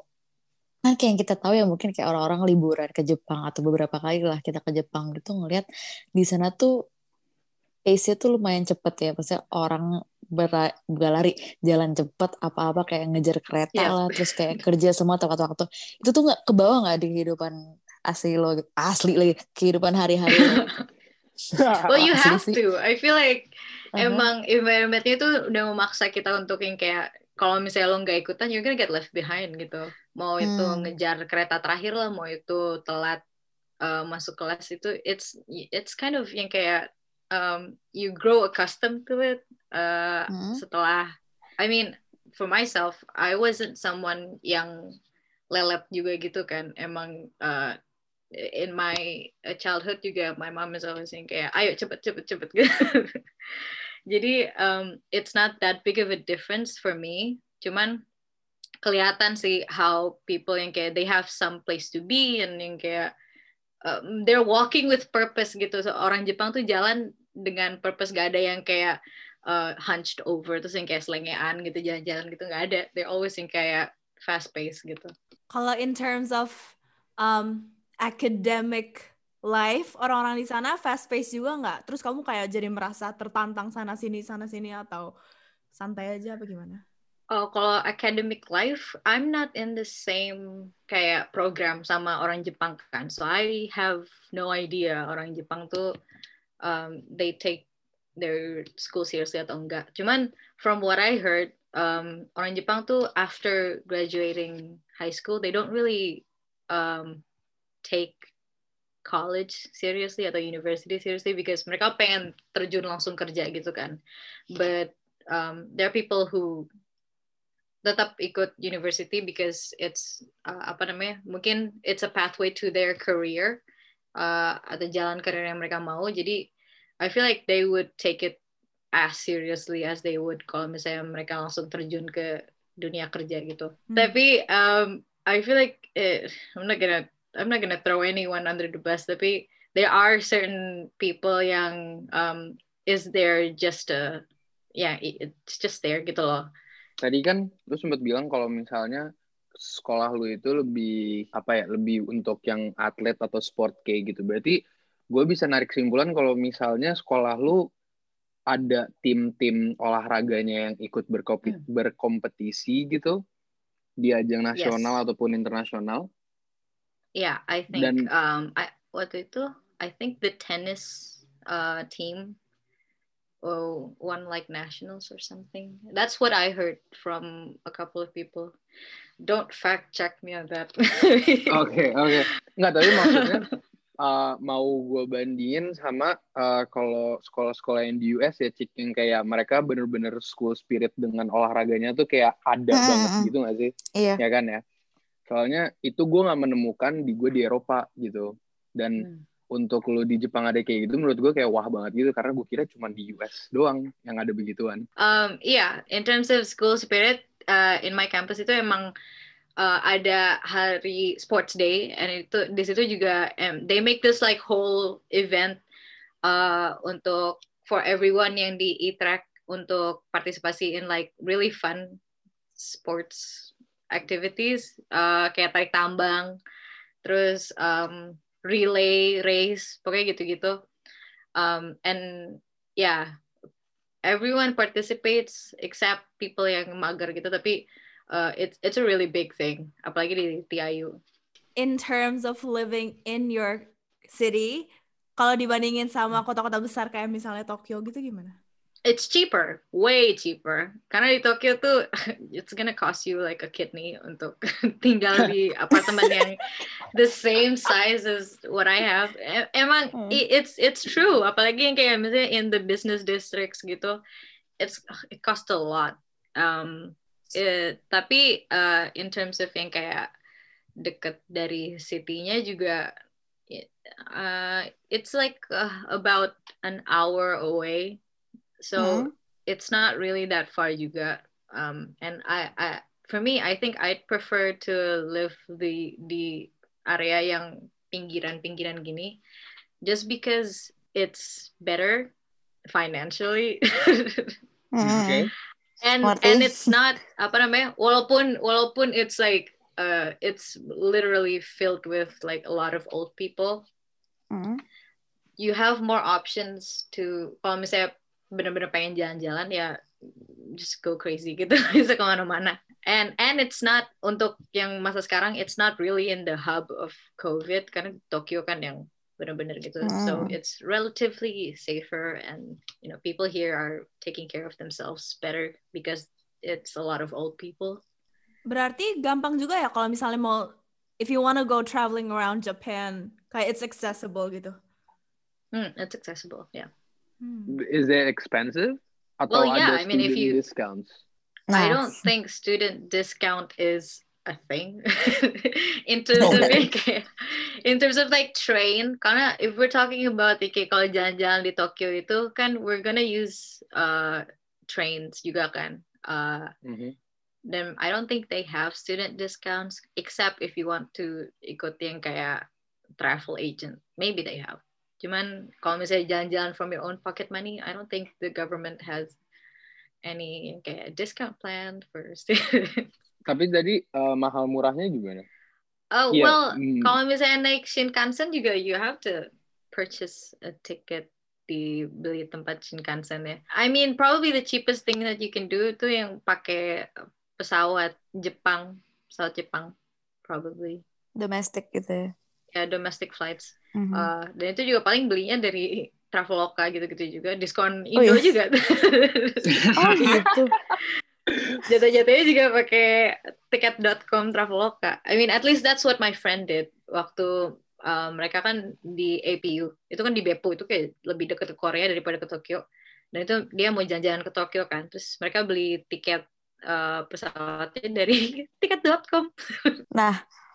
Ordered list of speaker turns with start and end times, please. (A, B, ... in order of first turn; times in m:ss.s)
0:00.9-0:05.7 A
0:06.2-0:06.7 A
0:07.9-0:17.6 A
0:13.8-0:14.6 B
0:18.1-0:20.7 A
0:20.3-0:20.6 B
0:21.6-0:21.9 C
0:21.9-0:33.2 B
0:21.9-0:22.6 A
0:24.0-0:24.3 A
0:30.4-0:30.9 A
0:33.8-0:45.0 B
0:40.3-0:40.6 A
0:45.5-0:47.8 B
0:48.3-0:53.2 B
0:54.1-0:58.0 B
0:58.8-1:03.1 B
1:03.8-1:15.1 B
1:15.5-1:25.1 D
1:25.8-1:26.8 D
1:27.3-1:35.9 B
1:36.6-1:37.7 B
1:38.2-1:47.2 B
1:47.8-1:48.3 B
1:49.0-1:54.0 B
1:54.5-1:56.7 B
1:57.8-2:03.6 B
2:04.2-2:06.5 B
2:07.0-2:08.4 B
2:09.0-2:24.2 B
2:13.9-2:14.2 D
2:24.8-2:26.4 B
2:27.0-2:29.1 C
2:29.6-2:34.6 C
2:35.1-2:37.6 C
2:38.5-2:43.2 C
2:44.0-2:46.1 C
2:44.6-2:45.0 B
2:47.2-2:52.4 B
2:47.7-2:48.1 C
2:53.4-2:58.5 B
2:59.2-3:01.6 B
3:01.5-3:03.5 C
3:02.9-3:03.4 B
3:04.0-3:14.6 C
3:12.7-3:13.3 A
3:15.3-3:24.9 C
3:25.0-3:28.9 B
3:29.6-3:35.6 B
3:36.2-3:42.0 B
3:42.6-3:46.3 B
3:47.0-3:50.6 B
3:51.4-3:53.1 B
3:54.0-3:57.6 B
3:58.1-4:01.0 B
4:01.6-4:08.4 D
4:08.9-4:11.8 B
4:12.3-4:24.0 B
4:20.0-4:20.2 A
4:24.6-4:30.1 B
4:30.8-4:32.9 B
4:33.5-4:38.0 B
4:38.6-4:49.2 B
4:38.8-4:39.1 A
4:49.8-4:52.1 B
4:52.7-4:54.4 B
4:54.7-4:55.3 A
4:54.8-4:55.3 C
4:55.8-5:03.7 B
4:56.0-4:56.7 A
5:04.3-5:04.6 A
5:05.4-5:09.8 B
5:10.5-5:27.8 B
5:19.8-5:20.3 A
5:28.5-5:34.6 D
5:35.5-5:36.7 B
5:37.2-5:37.6 D
5:37.5-5:41.0 C
5:39.3-5:40.4 B
5:41.5-5:42.0 A
5:41.5-5:56.5 B
5:46.2-5:46.6 A
5:46.2-5:46.6 C
5:56.7-5:57.0 C
5:57.5-6:02.4 B
6:03.0-6:09.2 B
6:10.0-6:12.9 B
6:13.3-6:15.3 C
6:15.9-6:29.7 B
6:16.1-6:17.0 C
6:30.3-6:30.8 B
6:31.2-6:32.1 A
6:32.5-6:39.6 B
6:33.8-6:34.1 A
6:38.0-6:38.4 A
6:39.5-6:40.5 C
6:39.8-6:40.6 A
6:41.6-6:52.6 B
6:53.2-6:59.8 B